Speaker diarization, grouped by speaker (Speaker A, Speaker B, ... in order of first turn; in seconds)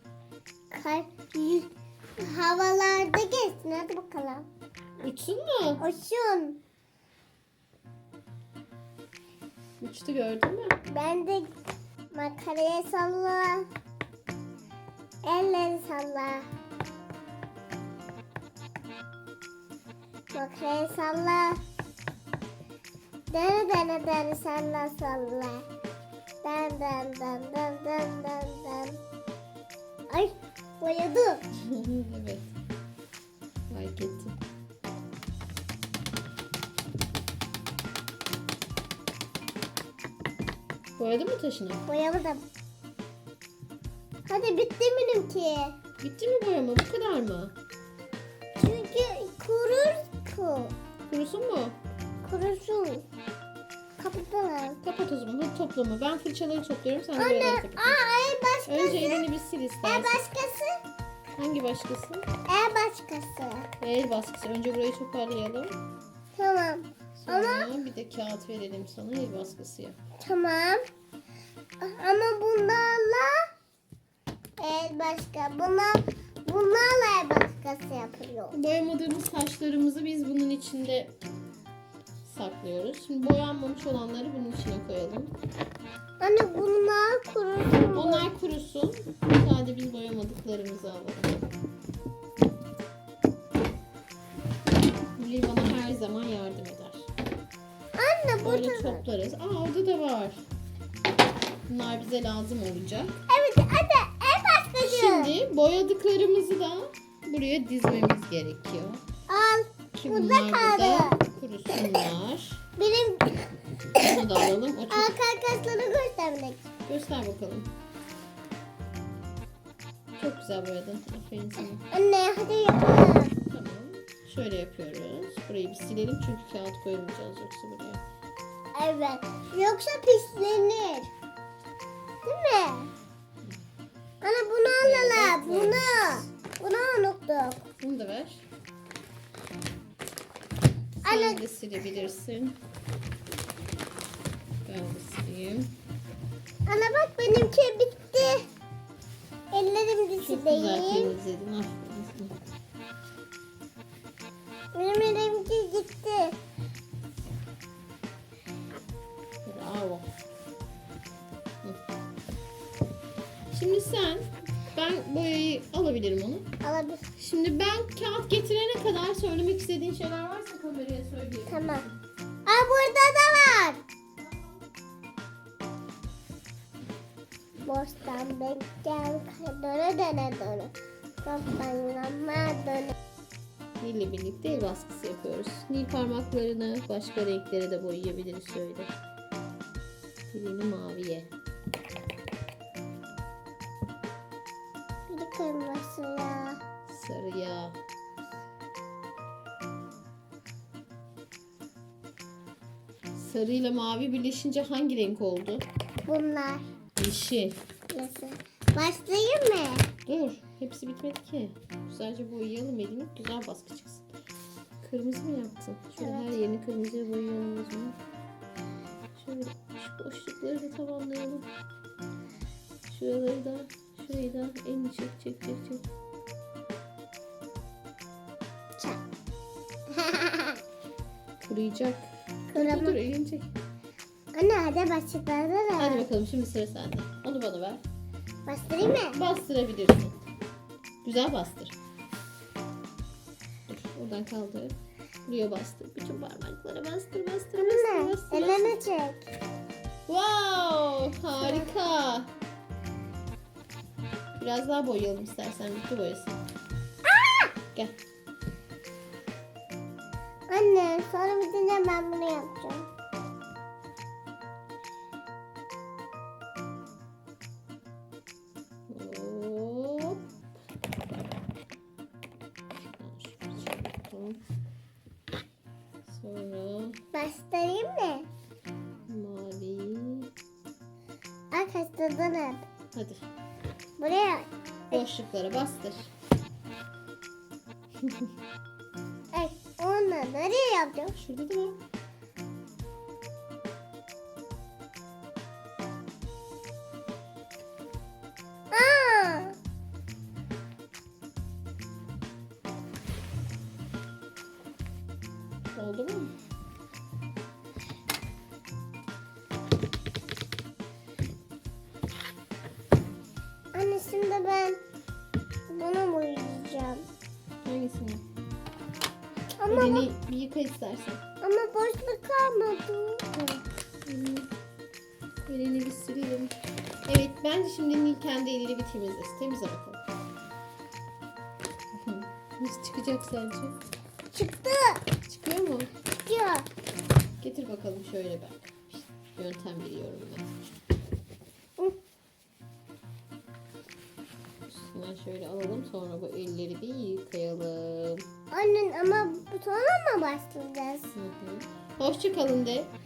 Speaker A: 0.7-4.5, 5.8-6.6, 10.9-11.5, 12.1-13.7, 15.2-16.5, 20.3-21.6, 23.3-25.7, 26.4-29.0, 30.1-31.4, 41.9-42.4, 44.3-45.8, 48.6-50.7, 52.2-53.0, 54.0-54.8, 57.2-59.2, 59.8-60.8, 62.5-63.7, 66.4-67.7, 70.2-70.8, 71.8-73.4, 74.6-78.6, 86.2-88.2, 98.0-99.0, 103.3-105.3, 109.3-111.2, 112.8-113.5, 114.9-116.7, 121.9-123.4, 128.8-131.1, 132.2-132.9, 134.2-137.7, 141.1-141.4, 146.7-148.4, 149.5-151.1, 154.7-156.4, 166.6-167.1, 171.5-171.8, 172.5-173.8, 177.7-182.9, 195.1-196.6, 206.1-206.7, 207.9-209.9, 216.0-216.4, 229.9-230.6, 232.6-233.0, 234.3-236.1, 238.5-239.2, 247.6-249.3, 251.4-251.7, 257.1-257.5, 260.5-262.9, 277.1-278.3, 281.5-282.6, 284.0-285.0, 289.3-291.1, 298.7-299.6, 313.7-314.8, 315.7-317.1, 319.6-320.1, 321.4-323.3, 334.3-335.1, 336.2-336.7, 348.5-351.1
Speaker B: 5.0-5.8, 9.8-10.8, 31.5-32.5, 33.7-34.4, 41.0-41.8, 46.0-47.5, 51.1-51.8, 54.8-58.0, 58.7-60.2, 61.4-62.3, 63.8-65.8, 67.2-70.0, 78.5-81.2, 82.2-85.3, 87.9-91.5, 95.2-97.1, 98.4-100.4, 101.7-103.2, 104.8-109.0, 109.9-112.6, 113.9-115.1, 116.9-117.7, 120.2-121.8, 123.5-128.0, 134.8-136.3, 137.8-138.4, 141.0-142.6, 144.7-145.7, 150.2-152.4, 159.4-160.1, 163.5-166.5, 167.2-172.0, 183.8-188.9, 190.3-191.3, 196.9-197.8, 203.1-205.7, 207.0-207.6, 210.1-214.1, 214.8-218.0, 219.2-221.5, 222.9-225.9, 231.4-233.5, 235.8-237.8, 239.1-240.2, 241.0-241.8, 243.7-248.8, 250.1-252.3, 254.3-256.4, 268.9-270.2, 272.9-274.4, 276.1-277.0, 279.1-280.3, 282.9-283.2, 284.9-286.1, 288.0-288.3, 291.2-291.8, 305.8-306.3, 317.6-318.2, 319.7-321.2, 323.3-324.5, 325.5-330.0, 331.9-333.8, 335.3-335.9, 337.4-340.7, 344.7-348.3, 351.1-352.9